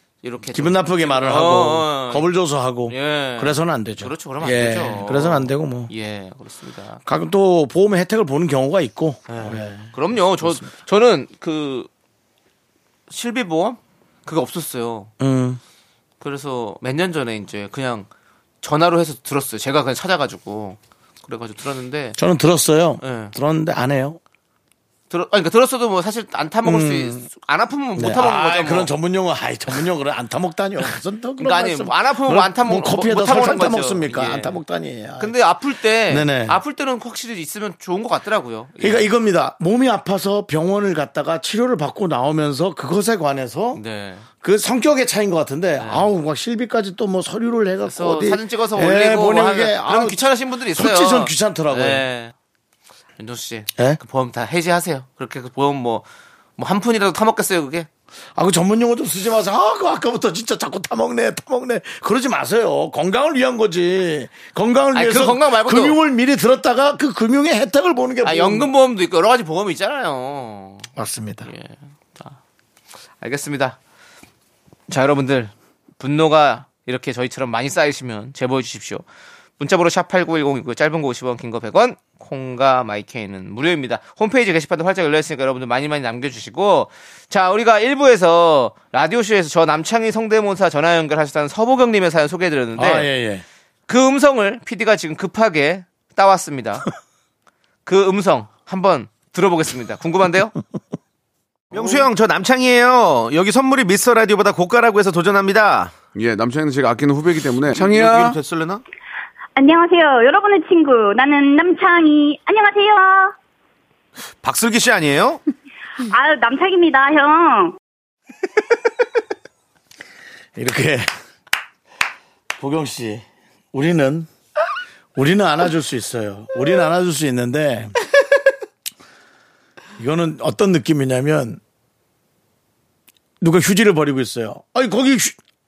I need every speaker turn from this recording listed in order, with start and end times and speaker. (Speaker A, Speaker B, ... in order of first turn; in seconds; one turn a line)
Speaker A: 0.2-2.3
Speaker B: 0.5-5.9
Speaker A: 2.9-7.0
Speaker B: 7.0-10.7
Speaker A: 9.3-11.9
Speaker A: 13.1-15.1
Speaker B: 15.2-15.6
Speaker A: 16.2-18.1
Speaker A: 18.6-22.2
Speaker B: 22.2-24.2
Speaker A: 23.0-23.3
Speaker A: 25.1-28.9
Speaker B: 26.6-27.3
Speaker B: 28.0-35.3
Speaker A: 31.4-34.6
Speaker A: 35.2-39.1
Speaker B: 36.1-36.6
Speaker B: 38.8-43.8
Speaker A: 43.7-44.3
Speaker B: 44.4-50.2
Speaker A: 45.8-46.1
Speaker A: 47.9-52.3
Speaker B: 50.7-52.0
Speaker A: 53.2-56.1
Speaker A: 56.6-57.9
Speaker B: 58.4-68.7
Speaker A: 64.9-66.0
Speaker A: 68.2-70.9
Speaker B: 71.0-71.5
Speaker A: 71.5-72.4
Speaker A: 73.2-73.8
Speaker A: 74.9-79.0
Speaker A: 79.6-93.1
Speaker B: 92.8-93.5
Speaker A: 93.9-96.9
Speaker A: 97.9-100.5
Speaker C: 101.7-106.0
Speaker A: 101.8-102.0
Speaker D: 106.2-108.4
Speaker C: 107.8-108.8
Speaker E: 109.6-113.3
Speaker C: 114.4-115.4
Speaker E: 116.1-117.7
Speaker B: 120.6-121.1
Speaker B: 122.6-124.3
Speaker B: 125.2-128.0
Speaker B: 130.0-131.6
Speaker B: 133.4-135.4